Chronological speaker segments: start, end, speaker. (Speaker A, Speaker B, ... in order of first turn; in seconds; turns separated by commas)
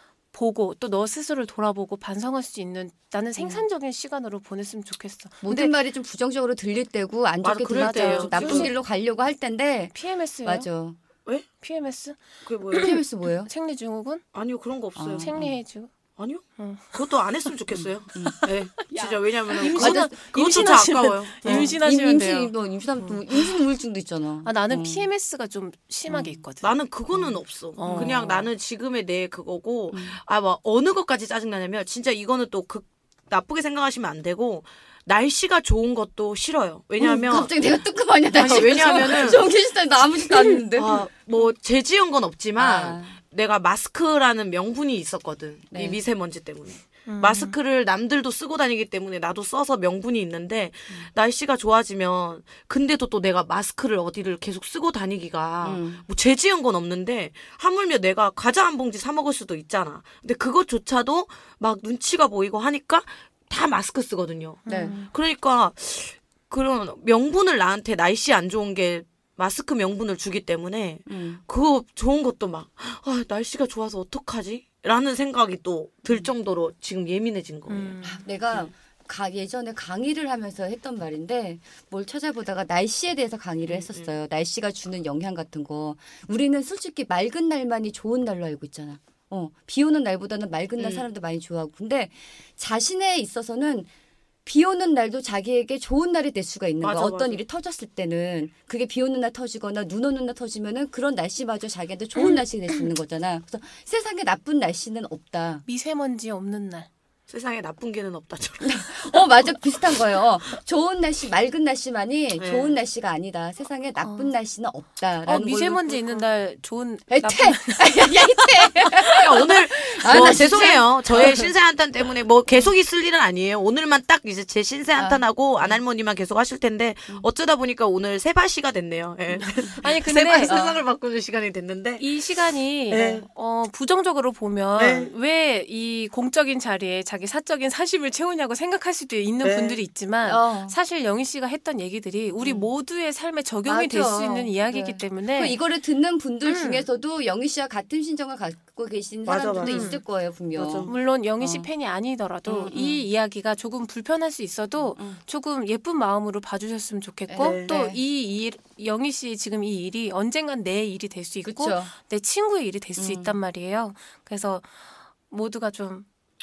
Speaker A: 0.3-5.8, Speaker B: 3.4-3.6, Speaker B: 5.4-11.0, Speaker C: 7.4-8.7, Speaker A: 7.7-8.8, Speaker A: 9.9-10.7, Speaker A: 11.6-12.2, Speaker C: 12.4-12.9, Speaker A: 12.7-14.2, Speaker B: 12.7-13.5, Speaker C: 14.3-15.3, Speaker B: 14.9-15.5, Speaker A: 15.2-15.9, Speaker C: 16.2-21.8, Speaker A: 16.6-17.0, Speaker B: 17.7-19.1, Speaker A: 19.5-23.5, Speaker B: 19.7-20.2, Speaker B: 21.4-25.1, Speaker A: 24.4-26.7, Speaker B: 26.1-26.4, Speaker C: 26.6-37.5, Speaker B: 27.1-28.5, Speaker A: 27.8-28.2, Speaker B: 29.9-30.2, Speaker B: 37.0-41.0, Speaker C: 38.3-39.5, Speaker A: 38.4-38.9, Speaker A: 40.3-40.6, Speaker C: 40.6-78.0, Speaker B: 42.6-43.2, Speaker B: 45.7-46.0, Speaker A: 47.0-47.5, Speaker B: 55.6-56.0, Speaker A: 64.7-65.1, Speaker B: 64.7-65.0, Speaker B: 71.1-71.4, Speaker A: 77.7-78.2, Speaker B: 78.0-93.9, Speaker C: 83.7-84.1, Speaker C: 90.8-91.1, Speaker B: 94.4-105.6, Speaker C: 96.8-97.4, Speaker A: 105.7-106.9, Speaker C: 107.3-109.5, Speaker B: 108.6-116.2, Speaker C: 112.4-112.8, Speaker A: 114.0-114.3, Speaker A: 115.2-119.5, Speaker B: 117.1-121.4, Speaker C: 119.1-132.1, Speaker A: 120.0-121.5, Speaker B: 125.0-125.2, Speaker A: 129.4-130.6, Speaker B: 130.4-130.8, Speaker A: 132.0-145.6, Speaker C: 132.9-133.2, Speaker B: 132.9-133.2, Speaker C: 134.8-135.1, Speaker C: 139.4-139.8, Speaker B: 140.2-140.8, Speaker B: 143.7-151.7, Speaker A: 146.4-146.8, Speaker C: 149.2-150.0, Speaker A: 149.6-150.0, Speaker C: 150.5-151.0, Speaker A: 150.9-166.1, Speaker C: 152.5-152.7, Speaker B: 152.7-153.0, Speaker B: 157.3-158.0, Speaker C: 157.4-157.8, Speaker B: 161.4-161.9, Speaker B: 163.0-163.3